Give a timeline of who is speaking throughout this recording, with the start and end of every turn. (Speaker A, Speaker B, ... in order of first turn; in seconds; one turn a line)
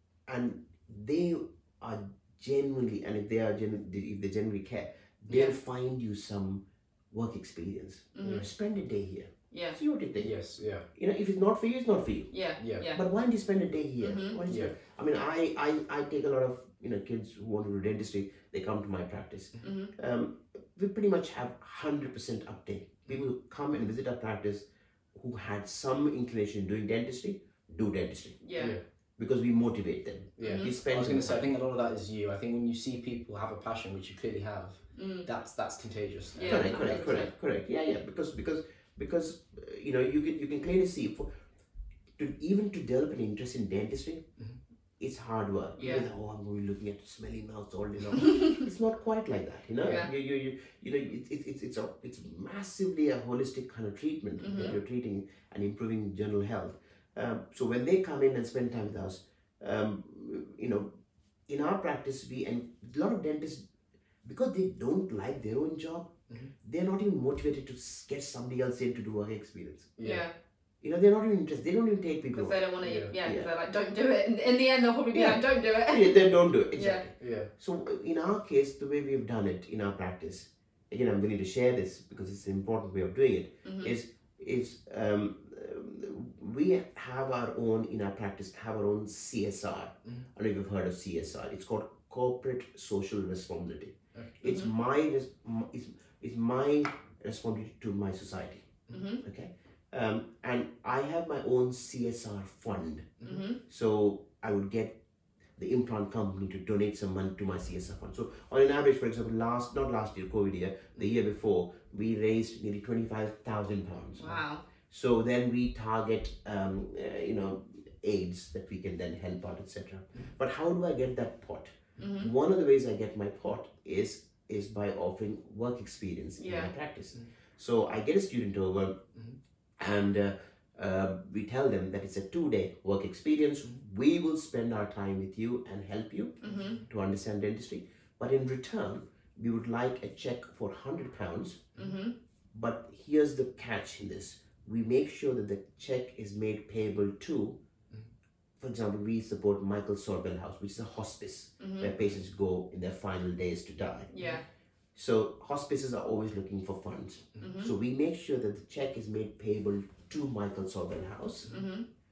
Speaker A: 0.3-10.3
Speaker B: 5.3-5.6
Speaker B: 8.2-8.5
Speaker B: 9.5-9.8
Speaker C: 10.2-10.9
Speaker A: 10.9-12.3
Speaker B: 12.3-13.0
Speaker C: 12.6-12.9
Speaker A: 12.9-28.6
Speaker B: 14.0-14.4
Speaker C: 14.5-14.7
Speaker B: 19.6-19.9
Speaker B: 28.4-28.8
Speaker A: 29.2-31.5
Speaker C: 30.4-37.2
Speaker B: 30.4-30.7
Speaker B: 35.0-35.3
Speaker B: 36.4-37.3
Speaker A: 36.4-41.3
Speaker A: 42.2-44.2
Speaker A: 45.0-60.9
Speaker B: 45.8-46.0
Speaker C: 48.0-48.3
Speaker B: 48.2-48.6
Speaker C: 49.8-50.1
Speaker B: 49.8-50.1
Speaker B: 54.4-54.8
Speaker A: 61.5-63.7
Speaker A: 64.2-70.0
Speaker C: 70.0-70.2
Speaker B: 70.0-70.3
Speaker A: 70.8-72.6
Speaker B: 72.3-77.0
Speaker C: 72.8-73.1
Speaker A: 73.2-73.5
Speaker A: 75.1-98.7
Speaker C: 77.2-77.5
Speaker B: 83.6-84.0
Speaker B: 94.4-94.7
Speaker B: 98.9-99.2
Speaker A: 99.2-103.1
Speaker B: 103.2-103.6
Speaker A: 103.7-105.0
Speaker A: 105.6-114.3
Speaker B: 114.2-114.6
Speaker A: 114.9-129.0
Speaker B: 122.0-122.3
Speaker B: 126.4-126.7
Speaker A: 129.8-141.6
Speaker B: 136.4-136.8
Speaker C: 136.4-136.8
Speaker B: 141.8-142.1
Speaker A: 142.5-147.6
Speaker A: 148.6-154.1
Speaker B: 151.6-151.9
Speaker B: 154.1-154.4
Speaker A: 154.9-161.5
Speaker B: 157.4-157.7
Speaker B: 161.5-161.9